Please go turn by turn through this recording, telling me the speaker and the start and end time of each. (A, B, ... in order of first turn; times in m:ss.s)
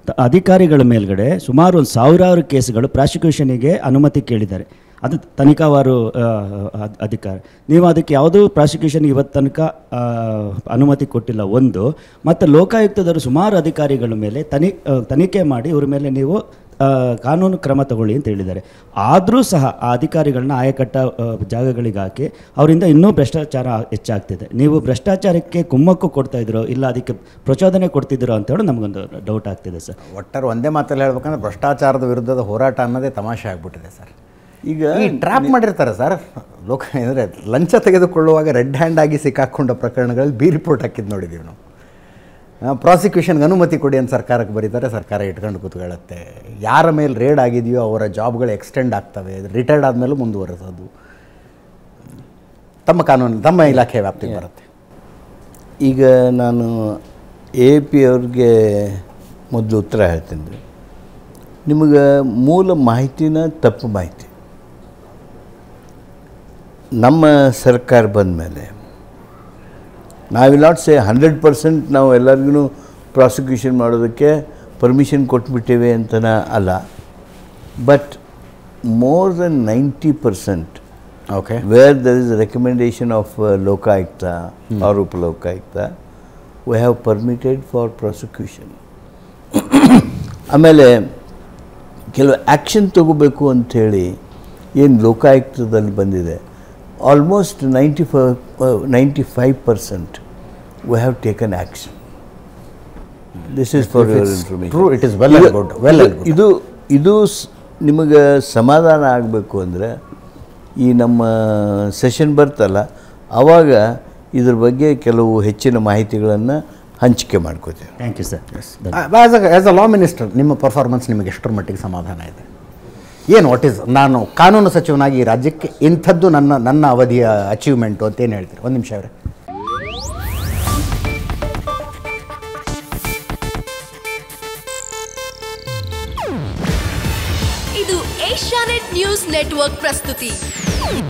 0:00.2-0:30.0 A
0:30.1-0:34.1 B
0:34.7-0:35.5 C
0:34.9-0:41.6 B
0:42.6-0:50.9 B
0:52.8-0:54.6 B
0:55.8-0:57.0 C
0:57.6-1:00.6 C
1:01.7-1:04.3 C
1:07.0-1:08.7 C
1:10.3-1:16.8 C
1:17.8-1:18.2 C
1:18.9-1:20.8 C
1:21.3-1:21.6 B
1:21.6-1:25.9 C
1:26.6-1:28.7 C
1:29.5-1:31.1 C
1:32.1-1:34.1 C
1:34.7-1:36.4 C
1:37.0-1:40.2 C
1:40.9-1:42.0 C
1:43.5-1:49.9 C
1:43.8-1:46.4 B
1:50.8-1:52.8 C
1:53.4-1:53.8 C
1:54.3-1:57.9 C
1:58.0-1:59.0 A
1:58.9-2:02.4 B
2:03.3-2:09.1 B
2:17.7-2:20.4 D